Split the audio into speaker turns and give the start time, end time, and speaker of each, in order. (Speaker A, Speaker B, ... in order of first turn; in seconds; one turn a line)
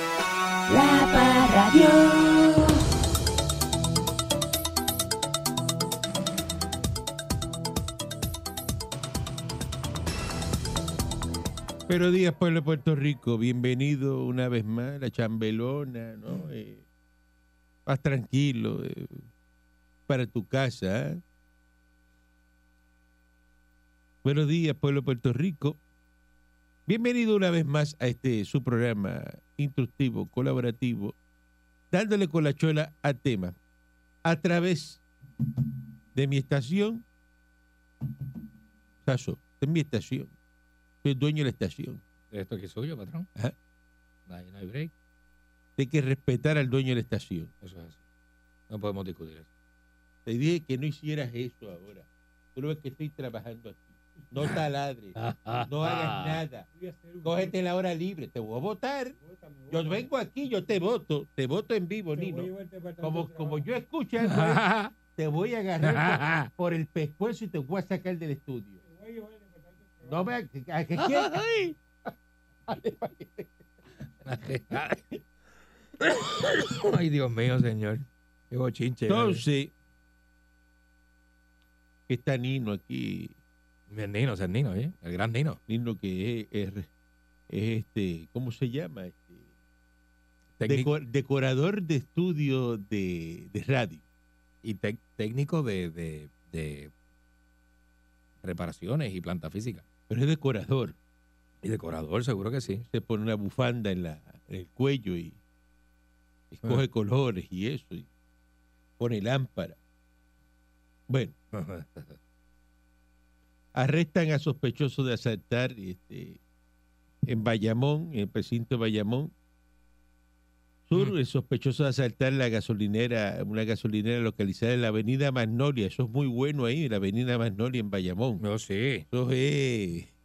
Speaker A: 0.7-2.6
Speaker B: 11.9-16.8
Speaker B: 17.9-19.3
Speaker B: 20.1-21.2
Speaker B: 24.2-25.8
Speaker B: 26.9-31.1
Speaker B: 31.9-33.6
Speaker B: 34.2-35.0
Speaker B: 36.1-37.0
Speaker B: 39.0-40.3
Speaker B: 41.0-42.0
Speaker C: 42.3-43.3
Speaker C: 44.3-44.9
Speaker B: 45.8-47.5
Speaker C: 47.6-48.0
Speaker C: 48.7-49.5
Speaker B: 50.3-68.8
Speaker C: 55.1-56.4
Speaker C: 64.2-64.9
Speaker C: 65.8-66.5
Speaker B: 70.0-71.6
Speaker C: 71.0-71.7
Speaker B: 72.7-73.5
Speaker C: 74.2-75.2
Speaker C: 76.0-79.4
Speaker B: 79.1-79.7
Speaker B: 82.1-83.3
Speaker C: 83.9-85.6
Speaker B: 85.7-86.9
Speaker B: 87.5-89.5
Speaker C: 90.6-90.9
Speaker B: 90.6-94.0
Speaker C: 94.6-96.9
Speaker C: 98.4-99.8
Speaker B: 100.1-101.0
Speaker C: 101.6-102.8
Speaker B: 102.9-105.4
Speaker B: 106.5-108.1
Speaker B: 109.0-109.8
Speaker B: 111.1-111.3
Speaker C: 111.5-112.2
Speaker B: 113.7-116.4
Speaker B: 117.2-119.3
Speaker B: 120.9-128.4
Speaker C: 128.4-129.1
Speaker B: 129.1-130.1